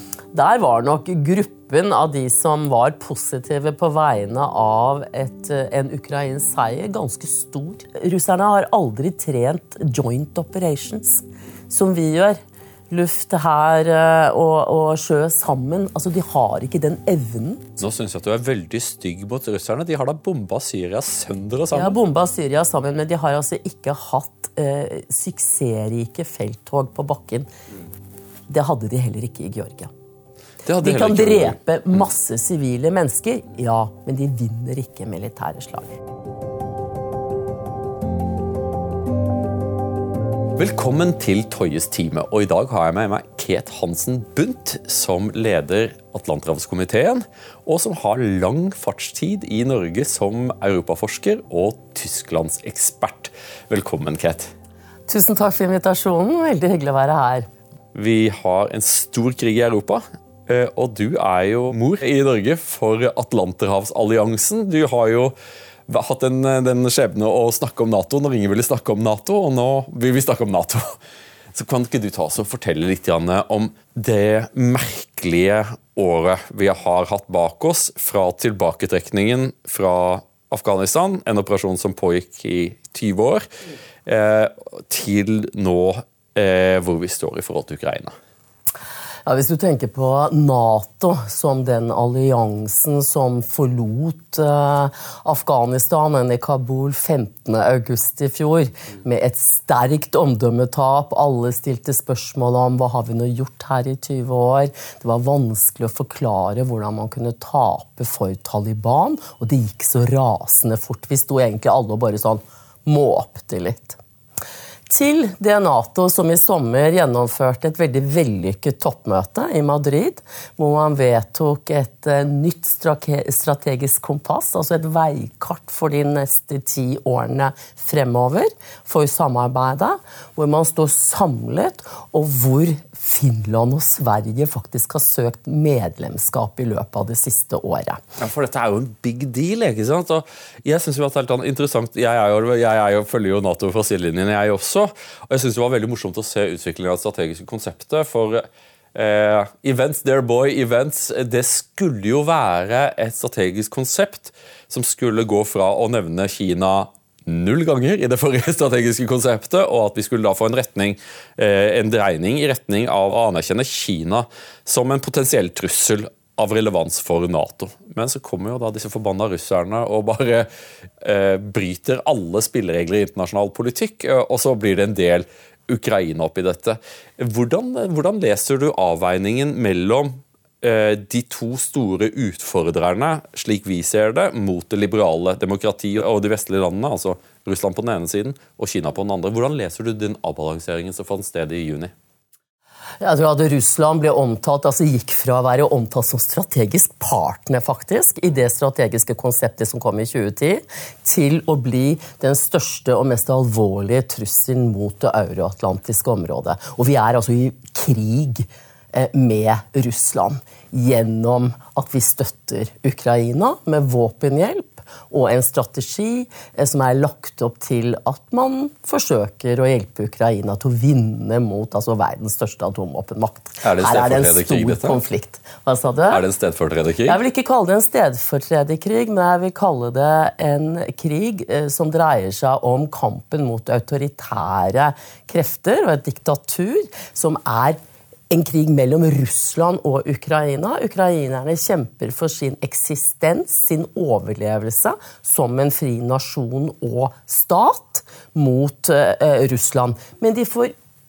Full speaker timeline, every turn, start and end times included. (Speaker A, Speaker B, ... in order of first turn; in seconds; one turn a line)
Speaker A: 0.3-12.4
Speaker A: 12.9-17.8
Speaker B: 17.8-22.0
Speaker A: 21.7-27.5
Speaker A: 28.5-29.9
Speaker B: 30.6-31.6
Speaker A: 30.8-36.0
Speaker B: 40.6-54.5
Speaker A: 55.1-57.5
Speaker B: 57.9-65.3
Speaker B: 65.9-71.0
Speaker B: 71.5-83.5
Speaker B: 84.0-88.2
Speaker A: 89.2-114.0
Speaker A: 114.9-138.0
Speaker B: 138.2-170.5
Speaker B: 171.0-191.9
Speaker A: 193.0-226.2
Speaker B: 223.6-225.0
Speaker B: 226.1-227.2
Speaker A: 227.0-237.8
Speaker A: 238.3-250.7